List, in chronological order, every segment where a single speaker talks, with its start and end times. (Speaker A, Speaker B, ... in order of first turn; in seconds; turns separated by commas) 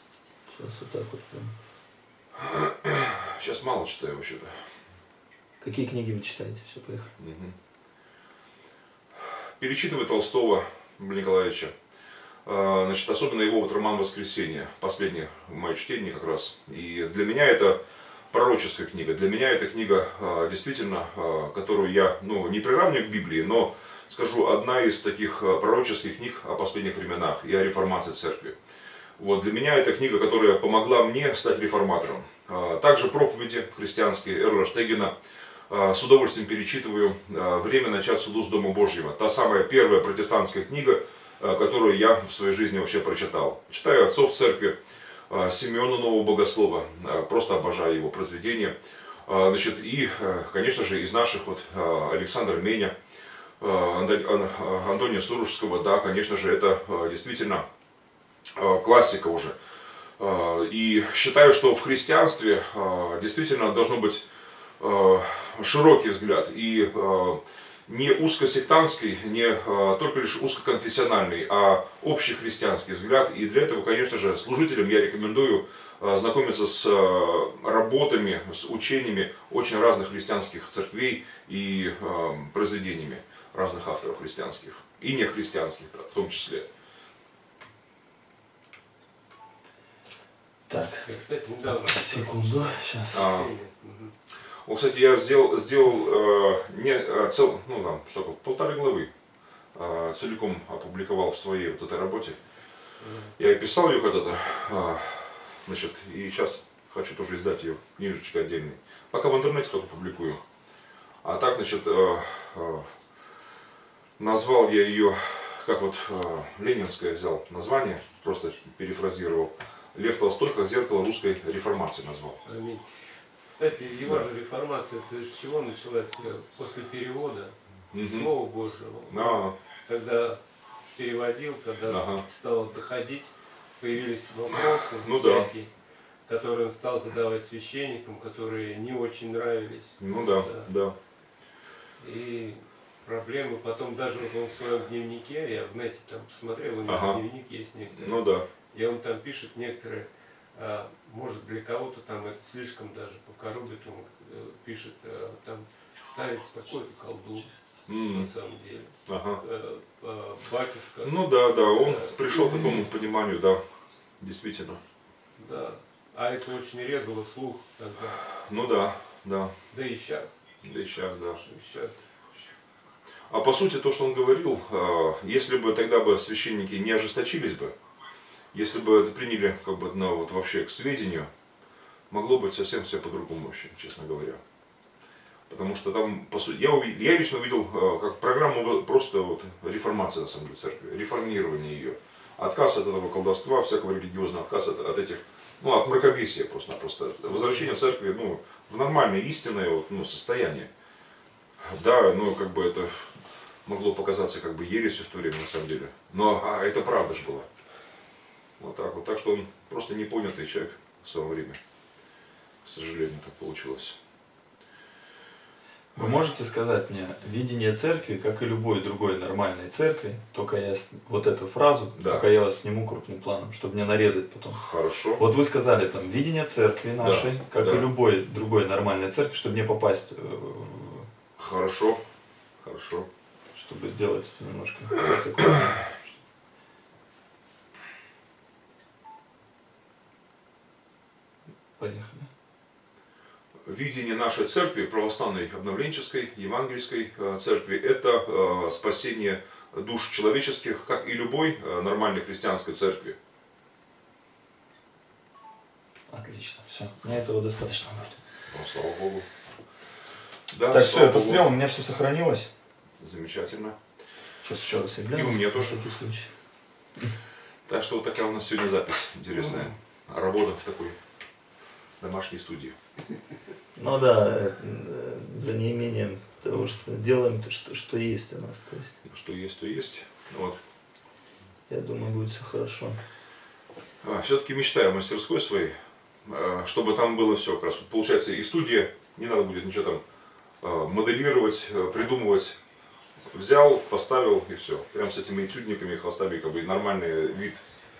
Speaker A: 0.5-1.5, Speaker B: 2.4-4.7, Speaker A: 5.6-7.1, Speaker B: 7.2-7.5, Speaker B: 9.6-11.7, Speaker B: 12.4-17.8, Speaker B: 18.3-28.6, Speaker B: 29.2-35.1, Speaker B: 35.7-44.8, Speaker B: 45.3-48.8, Speaker B: 49.2-52.9, Speaker B: 53.6-57.6, Speaker B: 58.6-59.5, Speaker B: 60.2-64.2, Speaker B: 64.8-86.7, Speaker A: 90.7-91.1, Speaker C: 90.9-94.1, Speaker A: 91.8-93.3, Speaker B: 93.1-93.5, Speaker B: 94.6-99.1, Speaker B: 99.7-102.4, Speaker C: 103.0-103.3, Speaker B: 103.4-110.4, Speaker B: 111.2-112.9, Speaker B: 114.2-122.4, Speaker C: 122.4-135.7, Speaker B: 124.0-124.3, Speaker B: 127.9-128.3, Speaker B: 129.1-129.5, Speaker B: 131.9-132.2, Speaker B: 135.0-135.5, Speaker C: 136.2-140.7, Speaker B: 140.0-140.9, Speaker C: 142.0-162.8, Speaker B: 146.9-147.2, Speaker B: 147.9-148.5, Speaker B: 157.9-158.3, Speaker B: 159.1-159.4, Speaker B: 161.0-163.6, Speaker B: 164.2-164.8, Speaker C: 165.4-168.2, Speaker B: 168.3-169.5, Speaker C: 169.7-170.4, Speaker B: 170.6-171.4, Speaker C: 171.4-172.0, Speaker B: 173.3-177.7, Speaker B: 178.5-181.3, Speaker B: 182.1-184.4, Speaker B: 185.5-200.7, Speaker C: 197.3-197.6, Speaker B: 201.6-203.1, Speaker B: 203.7-207.5, Speaker B: 208.6-211.6, Speaker B: 212.6-213.9, Speaker A: 215.9-224.6, Speaker B: 221.9-222.3, Speaker B: 224.5-225.2, Speaker A: 225.2-231.1, Speaker B: 227.0-227.9, Speaker B: 231.4-232.0, Speaker B: 232.6-233.1, Speaker A: 233.6-236.1, Speaker A: 241.8-242.3, Speaker B: 243.7-253.1, Speaker A: 256.1-258.2, Speaker B: 258.5-259.3, Speaker B: 260.5-261.5, Speaker A: 260.7-262.5, Speaker B: 263.0-263.8, Speaker A: 264.4-266.3, Speaker B: 265.1-266.0, Speaker B: 267.7-271.0, Speaker B: 272.0-272.8, Speaker A: 273.8-278.9, Speaker B: 279.1-280.6, Speaker A: 281.7-283.0, Speaker B: 284.0-285.8, Speaker B: 286.2-290.0, Speaker B: 290.6-292.6, Speaker B: 293.3-297.7